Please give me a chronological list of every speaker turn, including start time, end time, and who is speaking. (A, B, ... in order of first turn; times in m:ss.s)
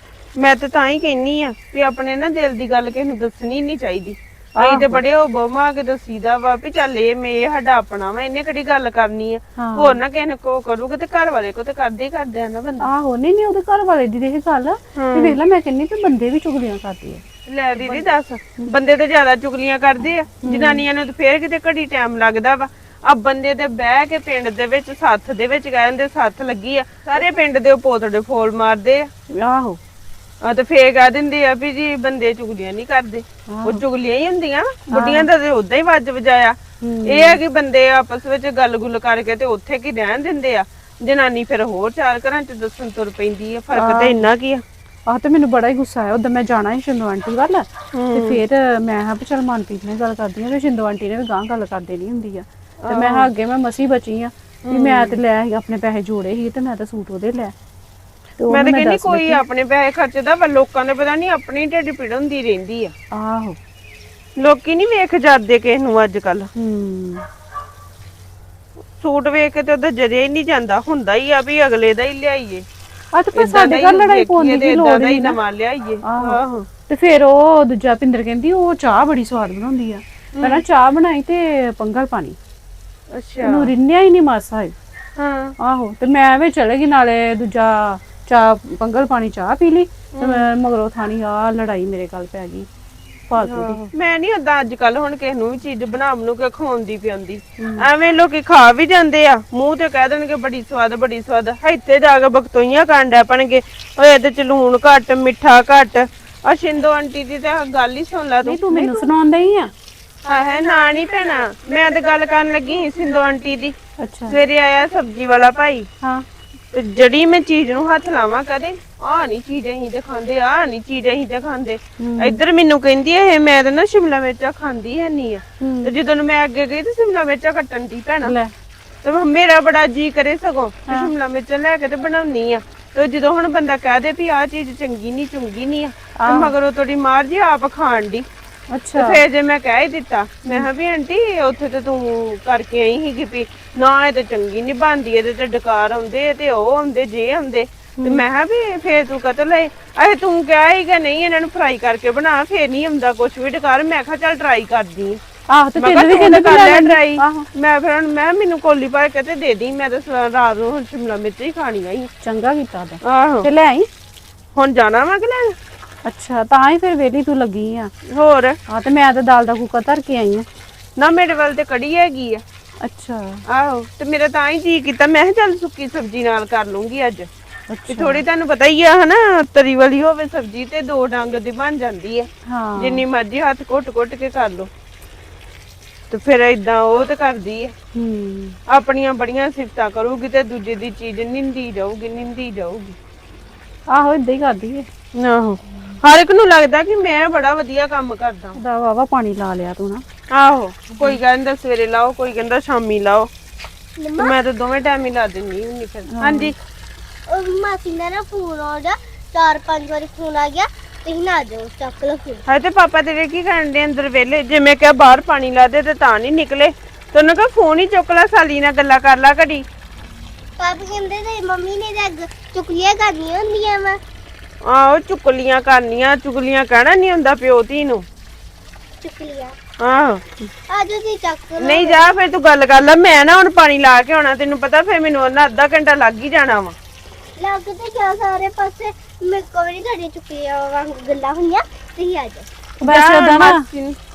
0:00.4-0:12.9 A
0:04.6-0:05.0 B
0:09.6-0:10.0 B
0:12.8-0:17.2 B
0:15.0-0:15.4 A
0:17.5-0:29.1 A
0:17.8-0:18.0 B
0:20.4-0:20.8 B
0:29.3-0:29.8 B
0:30.4-0:44.6 A
0:33.5-0:33.8 B
0:34.9-0:35.3 B
0:36.8-0:37.4 B
0:43.8-0:44.2 B
0:45.1-0:57.5 B
0:47.9-0:48.4 A
0:52.8-0:53.3 A
0:54.7-0:55.2 A
0:58.4-0:59.4 B
0:58.5-1:02.9 A
1:03.2-1:03.6 B
1:04.4-1:06.5 A
1:06.6-1:07.2 B
1:09.0-1:12.6 A
1:13.1-1:15.4 B
1:13.4-1:16.7 A
1:16.0-1:22.4 B
1:20.4-1:20.6 A
1:23.1-1:23.7 A
1:23.4-1:24.7 B
1:25.2-1:25.5 A
1:25.6-1:32.7 B
1:30.1-1:30.5 A
1:33.3-1:33.9 B
1:33.4-1:49.1 A
1:37.6-1:37.8 B
1:48.4-1:49.7 B
1:50.2-1:53.8 A
1:54.0-1:54.4 B
1:54.3-1:55.9 A
1:56.7-2:08.3 A
2:02.0-2:02.4 B
2:05.6-2:05.9 B
2:08.2-2:08.5 B
2:09.0-2:18.3 A
2:16.2-2:16.5 B
2:18.7-2:19.2 B
2:19.0-2:35.2 A
2:35.5-2:37.5 B
2:35.8-2:42.1 A
2:42.2-2:43.9 B
2:43.0-2:43.5 A
2:44.6-2:45.5 A
2:46.0-2:47.9 B
2:48.1-2:48.6 A
2:48.7-2:50.5 B
2:51.0-2:52.4 A
2:52.8-2:53.4 B
2:53.5-2:57.3 A
2:57.7-2:58.2 B
2:57.9-3:04.7 A
3:02.5-3:03.0 B
3:06.1-3:07.7 A
3:08.0-3:08.6 B
3:08.7-3:13.0 A
3:13.9-3:14.9 B
3:15.2-3:18.6 A
3:18.6-3:20.0 B
3:20.3-3:23.3 A
3:24.0-3:24.4 C
3:24.2-3:26.6 A
3:26.2-3:26.5 B
3:27.3-3:32.4 C
3:32.5-3:39.6 A
3:40.6-3:44.0 C
3:44.7-3:48.0 A
3:49.0-3:49.6 C
3:49.8-3:50.2 A
3:50.7-3:52.1 C
3:51.6-3:56.8 A
3:57.4-4:02.5 C
4:02.8-4:03.6 B
4:02.8-4:04.0 A